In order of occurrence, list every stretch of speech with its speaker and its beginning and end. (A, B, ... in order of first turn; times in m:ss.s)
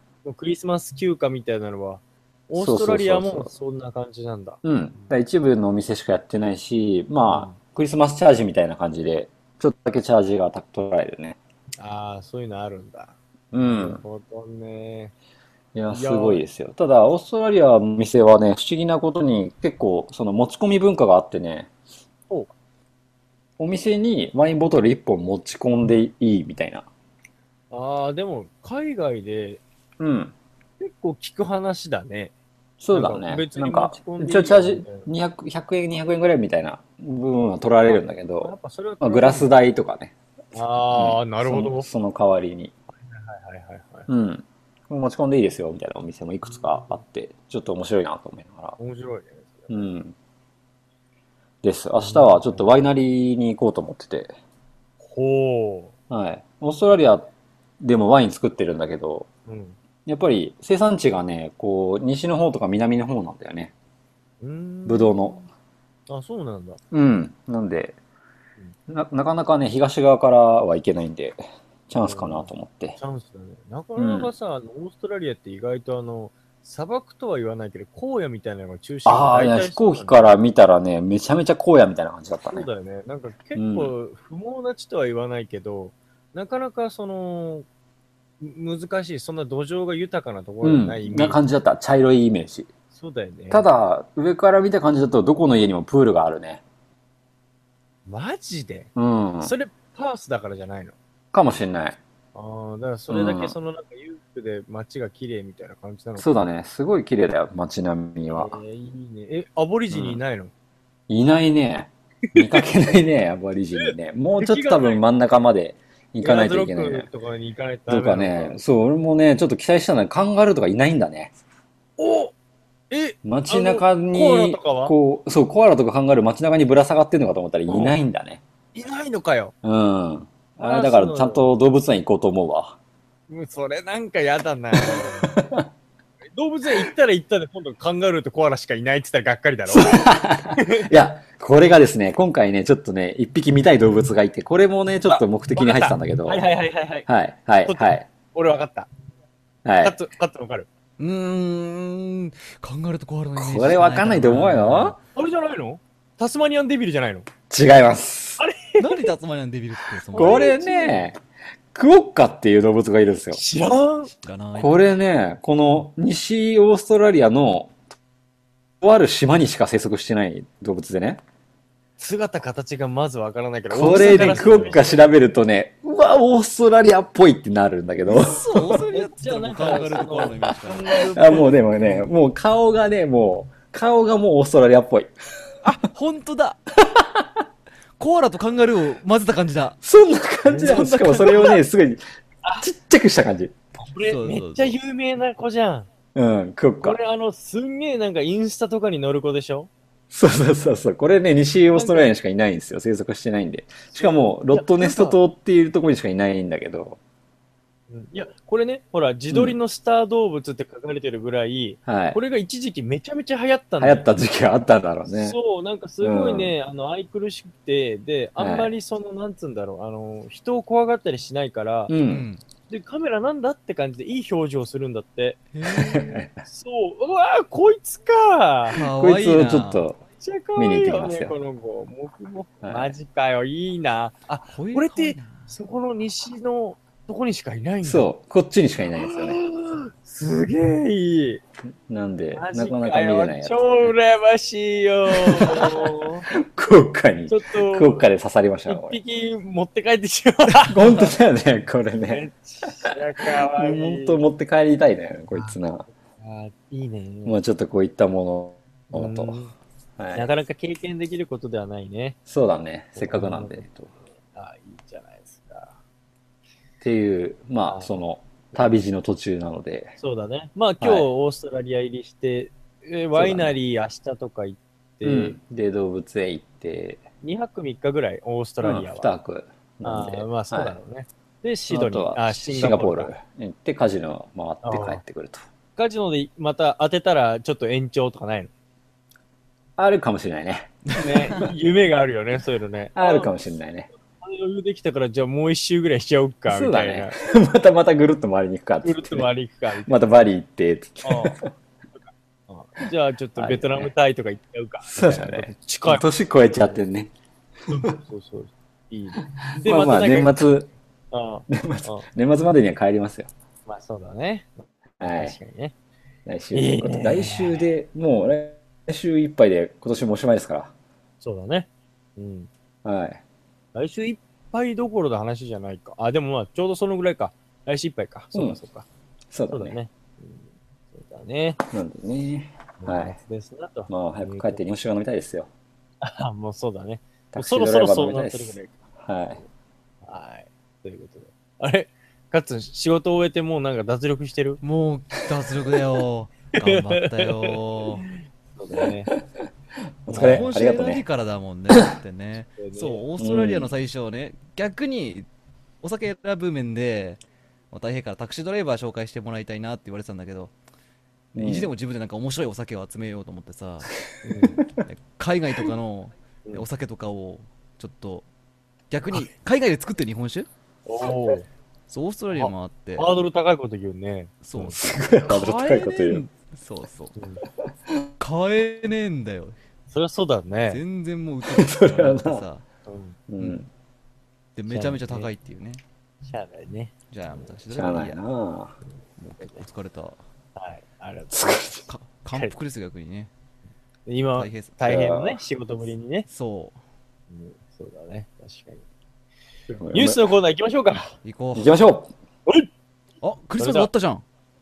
0:00.2-0:05.1 A
0:02.6-0:03.5 B
0:04.6-0:11.4 B
0:07.2-0:07.6 A
0:11.8-0:15.1 A
0:13.5-0:14.0 B
0:15.7-0:21.7 B
0:15.9-0:16.4 A
0:23.6-0:26.9 B
0:27.7-0:29.6 A
0:30.0-0:30.4 B
0:30.8-0:32.3 A
0:32.8-0:40.1 B
0:32.9-0:35.1 A
0:37.8-0:39.6 A
0:40.5-0:41.9 A
0:40.9-0:42.7 B
0:43.0-0:44.1 A
0:44.1-0:48.8 B
0:46.4-0:47.0 A
0:48.8-0:49.9 A
0:49.7-0:50.2 B
0:51.6-0:54.3 B
0:52.0-0:52.7 A
0:55.0-0:55.9 A
0:56.1-0:57.3 B
0:57.8-0:59.3 B
0:59.5-0:59.8 A
1:00.1-1:03.7 B
1:04.4-1:05.5 A
1:04.9-1:05.4 B
1:06.1-1:06.8 A
1:06.9-1:08.0 B
1:08.9-1:13.0 B
1:12.0-1:20.3 A
1:14.0-1:14.3 B
1:19.1-1:22.7 B
1:22.5-1:27.7 A
1:23.6-1:23.9 B
1:28.4-1:31.4 A
1:30.6-1:32.7 B
1:32.9-1:33.6 A
1:33.5-1:36.6 B
1:38.1-1:38.9 A
1:39.0-1:39.5 B
1:39.4-1:41.0 A
1:41.3-1:42.0 B
1:42.3-1:46.3 A
1:43.1-1:43.6 B
1:46.2-1:48.6 B
1:48.4-1:50.5 A
1:49.9-1:50.2 B
1:51.1-1:57.1 B
1:52.3-1:52.7 A
1:53.8-1:55.0 A
1:56.2-1:58.6 A
1:57.9-2:01.3 B
2:02.0-2:02.3 A
2:02.9-2:05.0 A
2:03.2-2:08.4 B
2:07.7-2:08.0 A
2:08.7-2:09.5 A
2:09.6-2:12.8 B
2:10.6-2:11.4 A
2:13.3-2:15.4 A
2:14.7-2:15.7 B
2:16.4-2:20.9 A
2:19.7-2:26.5 B
2:25.1-2:27.1 A
2:27.1-2:28.0 B
2:27.6-2:28.9 A
2:29.6-2:30.0 B
2:29.8-2:30.7 A
2:31.0-2:35.0 C
2:33.4-2:35.0 B
2:35.1-2:37.3 A
2:37.5-2:38.4 B
2:38.4-2:39.1 A
2:38.8-2:40.5 C
2:40.1-2:41.1 A
2:40.2-2:41.2 B
2:41.7-2:43.4 B
2:43.3-2:44.1 A
2:44.2-2:44.8 C
2:44.6-2:47.8 B
2:48.8-2:51.2 B
2:52.0-2:55.1 A
2:53.7-2:58.8 B
2:53.8-2:54.9 C
2:58.1-3:01.4 C
2:58.9-3:01.8 A
3:01.1-3:05.1 B
3:05.6-3:06.6 C
3:06.9-3:07.3 B
3:08.0-3:09.8 C
3:09.8-3:12.0 B
3:10.5-3:11.6 A
3:10.5-3:11.6 C
3:12.6-3:13.6 B
3:13.8-3:15.9 A
3:14.0-3:14.8 C
3:16.2-3:17.0 B
3:16.8-3:19.7 A
3:20.1-3:27.0 B
3:21.7-3:22.1 A
3:23.9-3:25.2 A
3:27.9-3:34.1 A
3:29.3-3:29.6 B
3:31.9-3:32.2 B
3:33.8-3:35.4 B
3:35.1-3:41.9 A
3:36.0-3:36.5 B
3:38.4-3:38.7 B
3:41.9-3:42.3 B
3:42.0-3:42.4 C
3:42.7-3:48.8 A
3:45.5-3:46.0 C
3:45.8-3:46.4 B
3:48.7-3:49.8 C
3:49.0-3:50.0 B
3:50.2-3:58.1 A
3:50.6-3:51.4 B
3:52.6-3:52.9 B
3:54.5-3:55.5 C
3:57.8-3:59.4 B
3:58.9-4:01.4 A
4:01.9-4:03.9 B
4:02.3-4:06.3 A
4:05.1-4:09.0 B
4:07.3-4:08.1 A
4:08.7-4:11.1 A
4:10.7-4:15.9 B
4:12.1-4:14.2 A
4:16.2-4:17.4 A
4:17.3-4:19.4 B
4:18.9-4:19.5 A
4:20.0-4:20.3 B
4:20.1-4:22.2 A
4:22.3-4:23.9 B
4:23.0-4:25.8 A
4:26.8-4:30.0 B
4:30.0-4:35.4 A
4:30.8-4:31.1 B
4:33.2-4:33.6 B
4:35.0-4:37.0 B
4:37.2-4:39.1 A
4:38.6-4:40.8 B
4:39.8-4:43.1 A
4:41.7-4:45.4 B
4:44.6-4:45.0 A
4:45.8-4:48.5 A
4:49.8-4:51.5 B
4:50.9-4:51.4 C
4:51.0-4:53.3 A
4:53.0-4:53.9 B
4:54.0-4:57.2 A
4:56.5-4:59.3 B
4:58.8-5:00.0 A
4:59.9-5:01.5 B
5:01.0-5:01.4 A
5:02.0-5:06.8 A
5:03.4-5:03.9 B
5:04.9-5:07.1 B
5:07.7-5:10.4 A
5:09.6-5:10.7 B
5:11.1-5:12.1 A
5:11.5-5:13.3 B
5:13.7-5:14.5 A
5:15.0-5:15.4 B
5:15.0-5:15.7 A
5:16.3-5:20.7 B
5:16.5-5:17.7 A
5:21.2-5:22.5 A
5:22.8-5:23.2 B
5:23.8-5:28.9 A
5:28.3-5:28.6 B
5:29.3-5:29.8 B
5:29.5-5:31.6 A
5:31.7-5:33.2 B
5:32.8-5:34.6 A
5:33.9-5:35.5 B
5:36.0-5:38.8 A
5:37.3-5:39.4 B
5:40.0-5:44.6 A
5:44.6-5:48.1 C
5:46.6-5:49.1 A
5:50.0-5:51.0 B
5:50.1-5:50.5 A
5:50.1-5:55.3 C
5:52.6-5:53.0 A
5:53.2-5:53.7 B
5:55.8-6:00.5 C
6:01.4-6:01.7 B
6:01.4-6:03.9 C
6:04.2-6:04.6 A
6:04.8-6:08.3 C
6:08.9-6:10.5 C
6:10.9-6:11.5 A
6:11.9-6:13.1 C
6:12.3-6:14.8 A
6:14.4-6:17.2 C
6:14.8-6:16.2 B
6:17.2-6:17.4 A
6:18.2-6:19.6 C
6:19.9-6:20.8 A
6:20.7-6:22.6 C
6:21.5-6:22.4 B
6:22.9-6:23.2 A
6:23.3-6:23.7 B
6:24.6-6:25.8 C
6:24.7-6:25.3 A
6:26.2-6:27.8 A
6:27.1-6:28.2 C
6:27.7-6:28.8 B
6:29.2-6:30.2 C
6:29.4-6:29.6 A
6:30.6-6:32.5 A
6:31.3-6:31.7 B
6:31.9-6:33.3 C
6:34.1-6:36.3 A
6:34.4-6:34.8 C
6:34.9-6:35.4 B
6:36.3-6:36.8 C
6:37.3-6:38.8 A
6:39.8-6:40.2 B
6:39.9-6:41.1 A
6:41.2-6:41.7 C
6:41.6-6:42.1 B
6:43.2-6:44.2 C
6:43.6-6:43.9 A